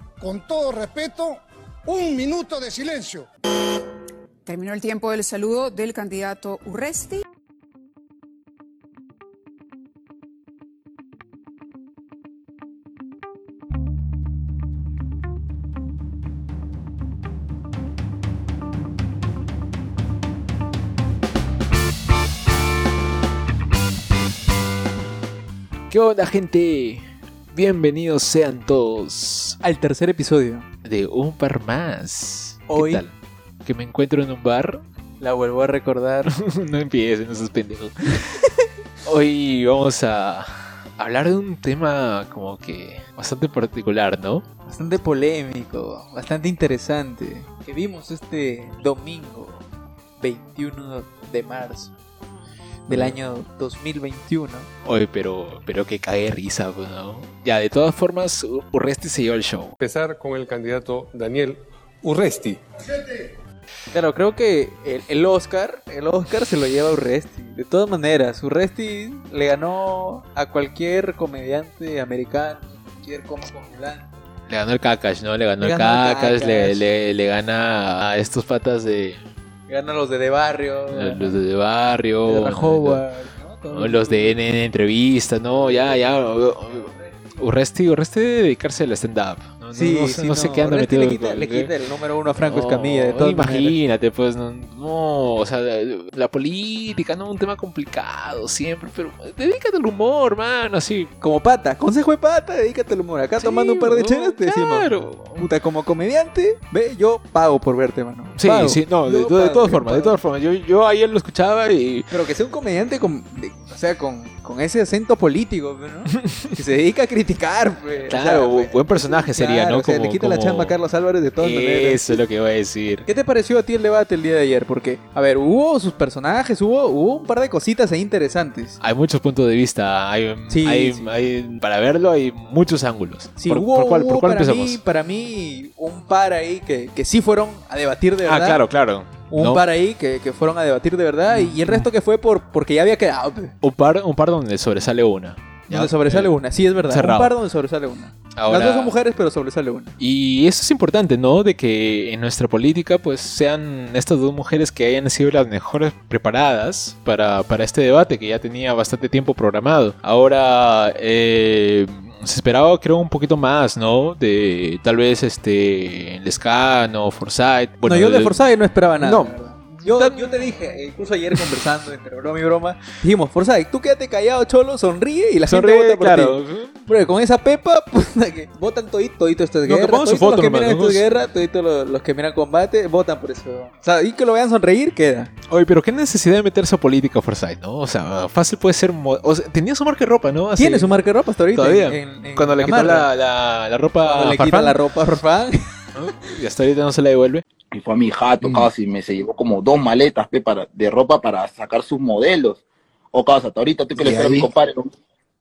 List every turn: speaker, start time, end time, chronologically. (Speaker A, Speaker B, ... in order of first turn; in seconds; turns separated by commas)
Speaker A: 0.2-3.3, Speaker B: 4.5-7.2, Speaker C: 25.9-29.6, Speaker D: 29.6-30.6, Speaker C: 30.8-34.8, Speaker D: 32.7-33.0, Speaker D: 35.2-36.3, Speaker C: 36.2-38.4, Speaker C: 39.0-44.4, Speaker D: 44.6-49.6, Speaker D: 50.2-51.9, Speaker D: 52.9-54.7, Speaker C: 52.9-53.1, Speaker C: 54.8-59.8, Speaker E: 59.8-63.2, Speaker D: 63.9-74.1, Speaker C: 74.5-79.2, Speaker D: 75.6-76.8, Speaker D: 79.7-81.4, Speaker C: 80.9-83.0, Speaker D: 82.2-84.4, Speaker C: 83.7-91.7, Speaker D: 85.5-87.4, Speaker D: 89.7-93.8, Speaker C: 92.4-101.1, Speaker D: 101.2-110.1, Speaker C: 103.4-105.5, Speaker C: 108.4-112.1, Speaker D: 112.1-122.2, Speaker C: 118.1-120.8, Speaker C: 121.4-123.1, Speaker D: 123.0-128.8, Speaker C: 128.8-134.8, Speaker D: 130.5-131.1, Speaker D: 133.4-138.6, Speaker C: 138.2-139.6, Speaker D: 139.3-143.5, Speaker C: 141.3-141.9, Speaker C: 143.6-147.3, Speaker D: 145.7-149.9, Speaker C: 148.3-148.9, Speaker C: 150.0-168.4, Speaker D: 167.8-185.3, Speaker C: 169.0-170.5, Speaker C: 175.5-176.8, Speaker C: 179.6-181.0, Speaker C: 185.5-194.8, Speaker D: 190.6-193.1, Speaker D: 194.0-195.6, Speaker C: 195.9-197.4, Speaker F: 197.7-202.6, Speaker F: 203.1-204.9, Speaker C: 204.0-204.5